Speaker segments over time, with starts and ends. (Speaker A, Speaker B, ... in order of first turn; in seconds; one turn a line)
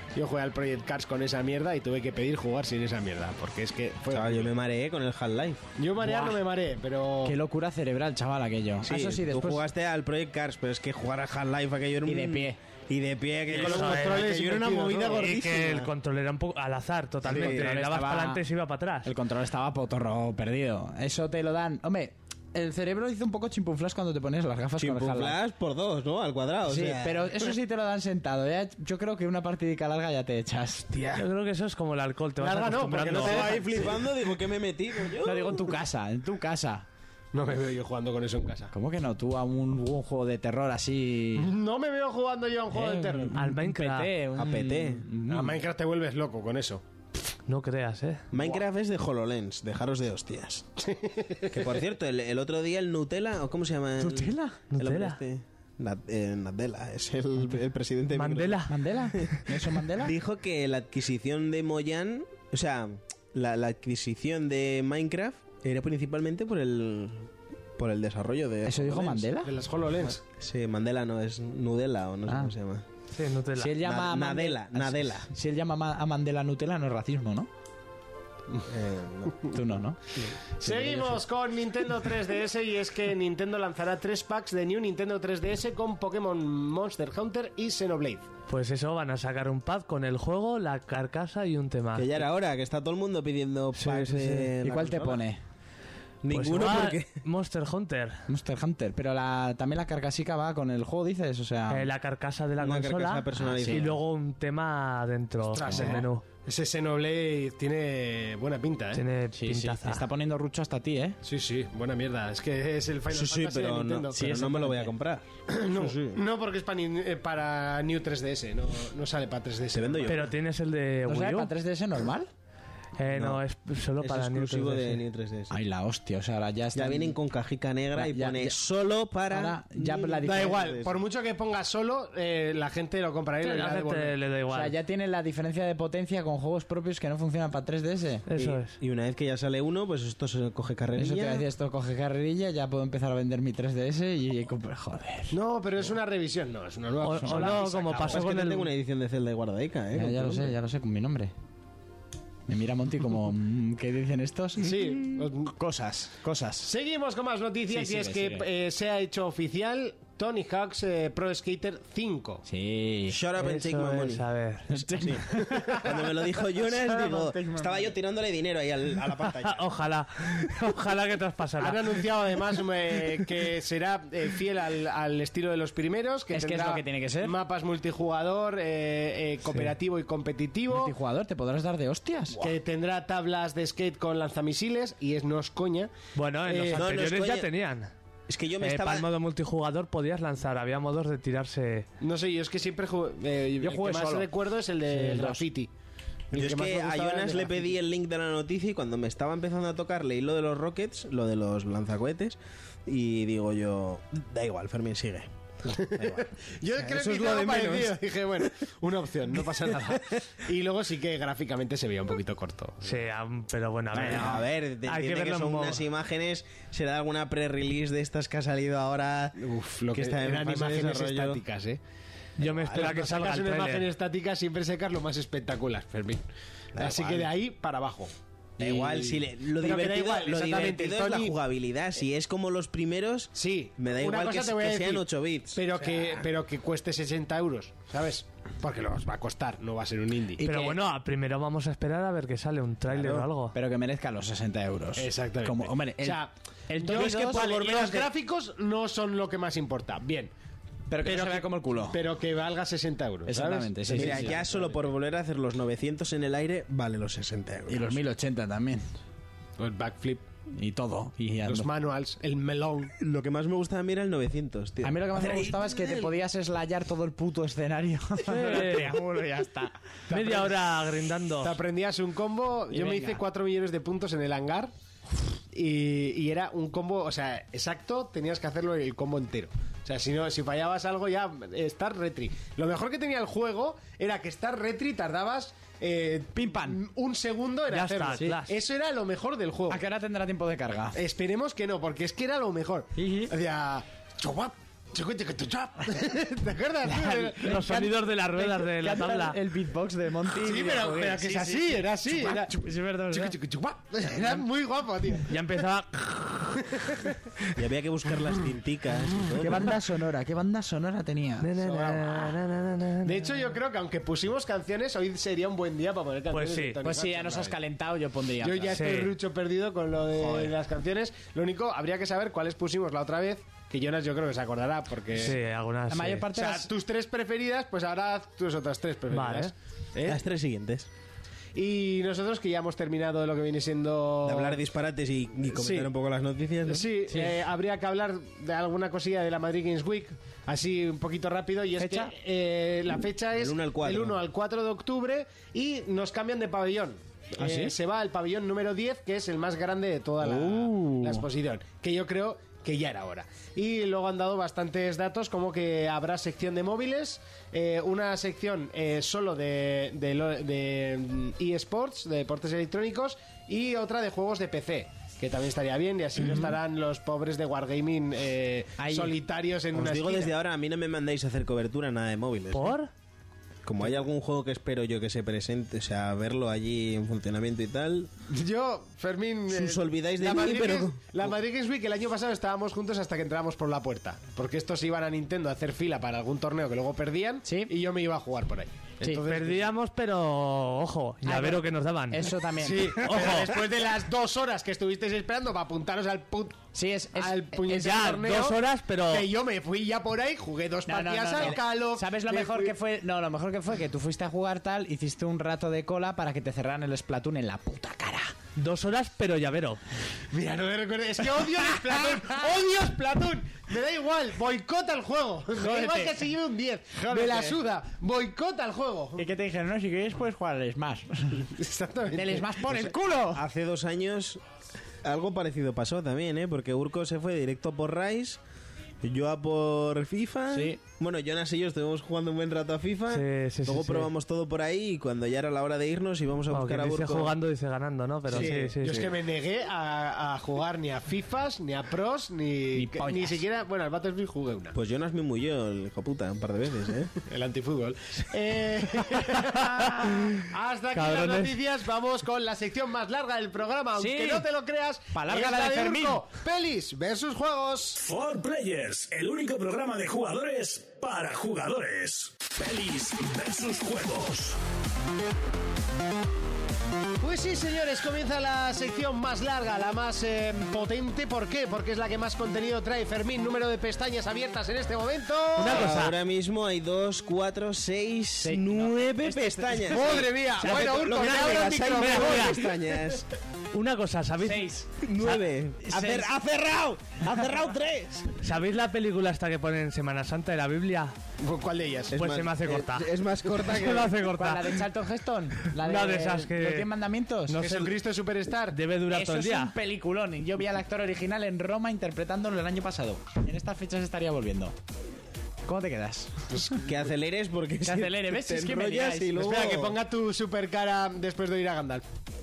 Speaker A: 0.1-4.5
Speaker B: 4.1-5.7
Speaker A: 5.8-7.4
Speaker C: 6.0-6.4
Speaker C: 7.2-9.6
Speaker B: 8.8-15.9
Speaker C: 12.1-12.6
Speaker D: 13.5-14.3
Speaker A: 13.6-15.8
Speaker D: 15.1-19.1
Speaker B: 17.2-17.7
Speaker C: 17.3-18.4
Speaker C: 19.0-25.4
Speaker B: 24.8-27.4
Speaker C: 26.7-30.9
Speaker A: 31.0-31.2
Speaker D: 31.1-33.5
Speaker A: 32.4-33.9
Speaker C: 33.1-33.5
Speaker B: 33.2-35.7
Speaker C: 35.2-36.9
Speaker A: 37.3-38.7
Speaker C: 38.7-41.5
Speaker A: 41.4-43.4
Speaker C: 42.7-45.6
Speaker D: 43.4-44.1
Speaker B: 44.4-45.0
Speaker A: 45.3-46.8
Speaker D: 47.5-48.3
Speaker B: 48.3-50.7
Speaker A: 50.8-51.6
Speaker B: 51.5-58.7
Speaker C: 54.0-54.6
Speaker D: 54.7-55.2
Speaker D: 58.1-58.7
Speaker C: 58.7-60.1
Speaker B: 60.0-69.3
Speaker C: 68.7-69.5
Speaker A: 69.4-70.2
Speaker B: 70.4-72.8
Speaker C: 72.3-72.5
Speaker D: 73.1-73.8
Speaker C: 73.6-77.5
Speaker B: 73.8-75.3
Speaker B: 78.7-79.4
Speaker C: 79.5-80.0
Speaker A: 80.6-88.3
Speaker C: 80.6-81.2
Speaker D: 88.5-92.2
Speaker B: 92.0-95.2
Speaker D: 93.8-94.5
Speaker C: 94.6-95.4
Speaker B: 96.2-97.1
Speaker D: 96.3-98.2
Speaker C: 98.3-101.9
Speaker D: 101.7-106.2
Speaker B: 102.6-104.0
Speaker C: 103.4-103.9
Speaker A: 105.5-109.0
Speaker D: 108.9-110.0
Speaker C: 109.3-111.2
Speaker A: 111.2-114.2
Speaker B: 113.1-116.2
Speaker C: 114.1-114.9
Speaker A: 115.5-120.2
Speaker B: 119.7-120.3
Speaker D: 120.1-121.5
Speaker C: 121.1-122.3
Speaker D: 123.0-125.0
Speaker B: 123.1-123.4
Speaker B: 124.0-125.5
Speaker C: 125.5-127.2
Speaker B: 126.8-131.0
Speaker C: 128.0-128.6
Speaker C: 129.3-130.7
Speaker A: 130.2-134.2
Speaker D: 133.4-134.8
Speaker C: 134.5-138.2
Speaker D: 138.3-138.8
Speaker B: 138.4-141.5
Speaker C: 141.0-145.3
Speaker A: 145.3-148.2
Speaker D: 147.0-148.7
Speaker C: 147.2-147.6
Speaker B: 148.0-150.5
Speaker C: 150.0-151.3
Speaker C: 152.5-156.7
Speaker A: 154.6-155.5
Speaker A: 156.6-162.4
Speaker C: 157.7-158.5
Speaker C: 162.4-163.2
Speaker B: 163.1-164.2
Speaker D: 163.4-164.7
Speaker C: 164.7-165.9
Speaker B: 164.9-169.6
Speaker C: 166.6-167.9
Speaker D: 169.4-172.0
Speaker A: 171.6-180.9
Speaker C: 176.3-177.3
Speaker C: 180.7-182.5
Speaker A: 182.4-185.9
Speaker D: 186.2-187.9
Speaker A: 186.4-186.9
Speaker B: 186.7-187.5
Speaker B: 188.3-189.1
Speaker D: 188.6-191.9
Speaker A: 192.0-195.7
Speaker C: 193.6-194.3
Speaker C: 194.9-195.4
Speaker A: 196.3-197.7
Speaker B: 196.3-205.3
Speaker A: 205.7-213.0
Speaker B: 205.9-206.2
Speaker B: 206.8-208.0
Speaker D: 212.8-215.8
Speaker B: 213.9-221.4
Speaker C: 214.1-214.4
Speaker A: 219.4-221.8
Speaker D: 222.4-223.9
Speaker A: 222.6-226.2
Speaker B: 226.8-227.3
Speaker A: 226.8-231.4
Speaker B: 228.6-236.2
Speaker A: 233.3-240.7
Speaker D: 240.4-243.5
Speaker C: 243.5-248.1
Speaker A: 245.0-250.3
Speaker B: 246.9-247.9
Speaker C: 250.9-252.0
Speaker A: 251.0-254.5
Speaker C: 253.3-254.4
Speaker B: 253.9-258.0
Speaker C: 257.7-258.8
Speaker A: 259.6-260.2
Speaker C: 260.5-261.7
Speaker A: 261.4-262.9
Speaker B: 263.0-266.1
Speaker C: 264.8-269.8
Speaker D: 268.3-268.9
Speaker D: 270.1-271.6
Speaker A: 270.1-270.5
Speaker A: 271.4-274.7
Speaker C: 272.7-273.2
Speaker A: 275.5-289.8
Speaker C: 286.3-286.8
Speaker D: 287.7-288.5
Speaker C: 289.7-291.0
Speaker A: 290.9-297.6
Speaker C: 293.0-293.3
Speaker C: 296.9-303.4
Speaker D: 297.1-299.4
Speaker A: 300.3-302.6
Speaker A: 303.1-305.3
Speaker D: 305.3-306.6
Speaker A: 306.7-307.0
Speaker B: 307.6-309.7
Speaker C: 309.4-311.5
Speaker D: 311.4-313.4
Speaker A: 311.6-312.4
Speaker A: 313.1-317.6
Speaker D: 316.3-316.8
Speaker C: 316.8-318.8
Speaker A: 318.4-325.4
Speaker D: 318.7-319.1
Speaker D: 325.2-326.3
Speaker C: 325.9-326.7
Speaker A: 326.3-330.2
Speaker D: 329.1-329.5
Speaker B: 330.1-330.9
Speaker A: 331.6-334.6
Speaker B: 334.2-336.9
Speaker A: 335.5-335.9
Speaker A: 336.7-370.3
Speaker C: 337.1-337.4
Speaker C: 341.8-342.1
Speaker B: 343.4-344.2
Speaker C: 347.4-347.8
Speaker C: 350.2-351.2
Speaker C: 368.8-369.1
Speaker B: 369.7-372.8
Speaker D: 372.5-372.9
Speaker B: 373.6-378.1
Speaker A: 378.3-389.7
Speaker B: 379.5-381.4
Speaker C: 387.4-387.7
Speaker D: 389.2-392.3
Speaker C: 391.2-393.4
Speaker A: 392.6-402.7
Speaker D: 393.0-393.6
Speaker C: 396.7-398.0
Speaker D: 397.7-399.3
Speaker C: 400.9-408.3
Speaker D: 408.6-409.8
Speaker A: 410.3-419.2
Speaker C: 415.6-416.3
Speaker C: 416.9-417.6
Speaker C: 419.2-421.5
Speaker A: 421.4-422.6
Speaker C: 422.1-423.4
Speaker B: 422.7-424.4
Speaker B: 425.0-428.4
Speaker B: 429.0-437.4
Speaker C: 430.5-430.8
Speaker D: 433.1-434.1
Speaker D: 436.5-439.1
Speaker B: 438.3-438.8
Speaker A: 438.4-444.7
Speaker C: 442.8-443.4
Speaker B: 444.7-447.1
Speaker A: 447.2-458.0
Speaker D: 450.0-450.4
Speaker D: 450.9-451.5
Speaker C: 454.0-454.5
Speaker C: 455.1-456.2
Speaker E: 458.0-464.6
Speaker A: 467.2-475.9
Speaker D: 475.6-476.2
Speaker B: 475.6-483.3
Speaker C: 478.4-480.3
Speaker A: 479.9-482.6
Speaker D: 480.7-482.6
Speaker D: 483.7-484.7
Speaker C: 484.4-486.3
Speaker B: 485.0-488.3
Speaker D: 488.4-491.1
Speaker A: 491.4-492.2
Speaker B: 492.1-494.1
Speaker D: 492.1-494.8
Speaker C: 494.4-497.6
Speaker D: 495.8-496.9
Speaker D: 497.5-497.9
Speaker A: 497.6-498.8
Speaker D: 498.7-499.7
Speaker C: 499.1-504.7
Speaker C: 505.7-506.7
Speaker B: 506.8-510.0
Speaker C: 507.8-509.4
Speaker A: 509.4-512.0